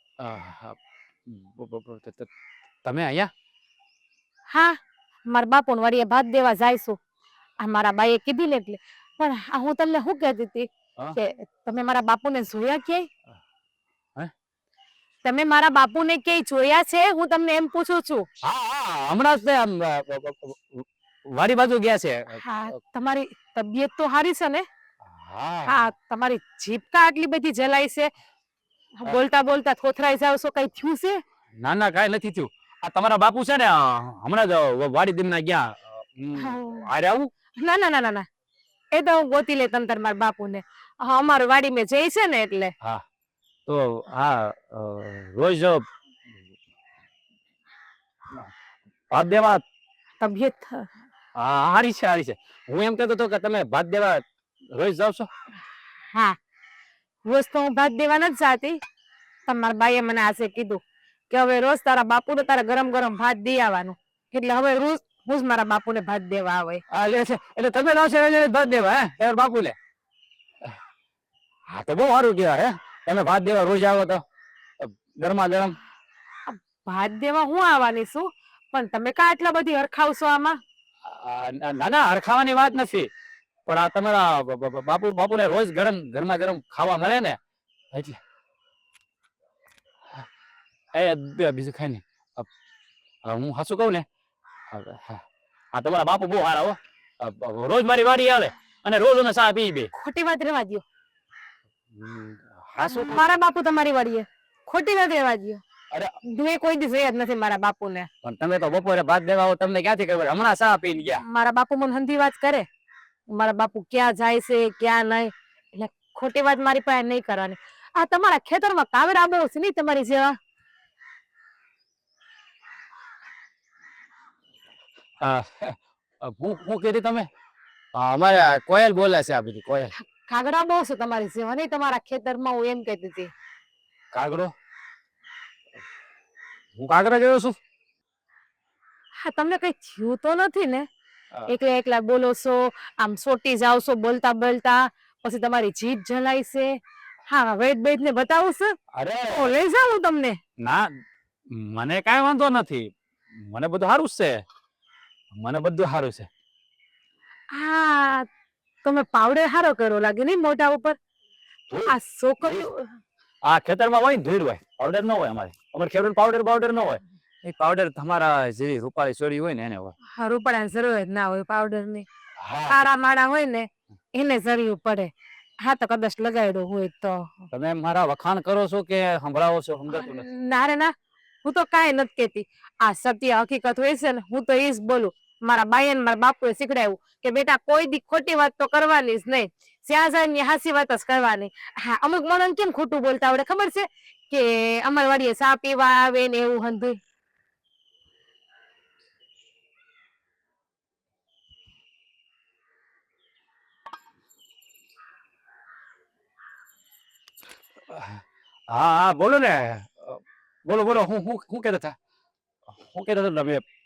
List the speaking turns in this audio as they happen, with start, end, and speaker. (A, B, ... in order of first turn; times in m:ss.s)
0:00.2-0:02.3 A
0:02.8-0:03.3 A
0:04.5-0:04.8 B
0:05.3-0:07.0 B
0:07.6-0:13.1 B
0:15.2-0:18.2 B
0:18.4-0:22.8 A
0:22.4-0:24.6 B
0:25.1-0:25.9 A
0:25.7-0:28.1 B
0:29.0-0:31.2 B
0:31.6-0:37.3 A
0:36.4-0:36.8 B
0:37.6-0:38.2 B
0:38.9-0:42.7 B
0:43.7-0:45.8 A
0:49.1-0:49.6 A
0:50.2-0:50.8 B
0:51.4-0:55.3 A
0:57.3-0:58.8 B
0:59.5-1:06.8 B
1:06.9-1:09.7 A
1:11.7-1:14.2 A
1:14.8-1:15.7 A
1:16.5-1:20.6 B
1:21.0-1:23.1 A
1:23.7-1:27.4 A
1:27.9-1:28.2 A
1:30.9-1:32.5 A
1:33.2-1:34.0 A
1:34.7-1:35.2 A
1:35.7-1:39.9 A
1:39.9-1:40.8 B
1:41.9-1:43.2 A
1:42.8-1:45.6 B
1:46.3-1:48.1 B
1:48.2-1:51.2 A
1:51.3-1:52.6 B
1:53.3-2:00.4 B
2:05.2-2:07.2 A
2:07.9-2:09.9 A
2:10.1-2:13.3 B
2:14.1-2:14.5 A
2:16.8-2:17.6 A
2:19.2-2:20.8 B
2:21.5-2:26.7 B
2:27.3-2:28.7 B
2:28.9-2:29.5 A
2:29.3-2:30.4 B
2:30.6-2:30.9 A
2:31.5-2:32.9 A
2:33.5-2:34.4 A
2:35.3-2:36.3 A
2:37.5-2:38.3 B
2:38.8-2:41.0 B
2:41.7-2:42.7 A
2:41.9-2:42.9 B
2:43.4-2:49.9 A
2:50.2-2:52.0 B
2:52.4-2:52.8 A
2:52.7-2:57.4 B
2:57.5-3:00.2 A
2:59.9-3:00.9 B
3:01.4-3:17.0 B
3:27.9-3:31.9 A
3:32.8-3:33.6 A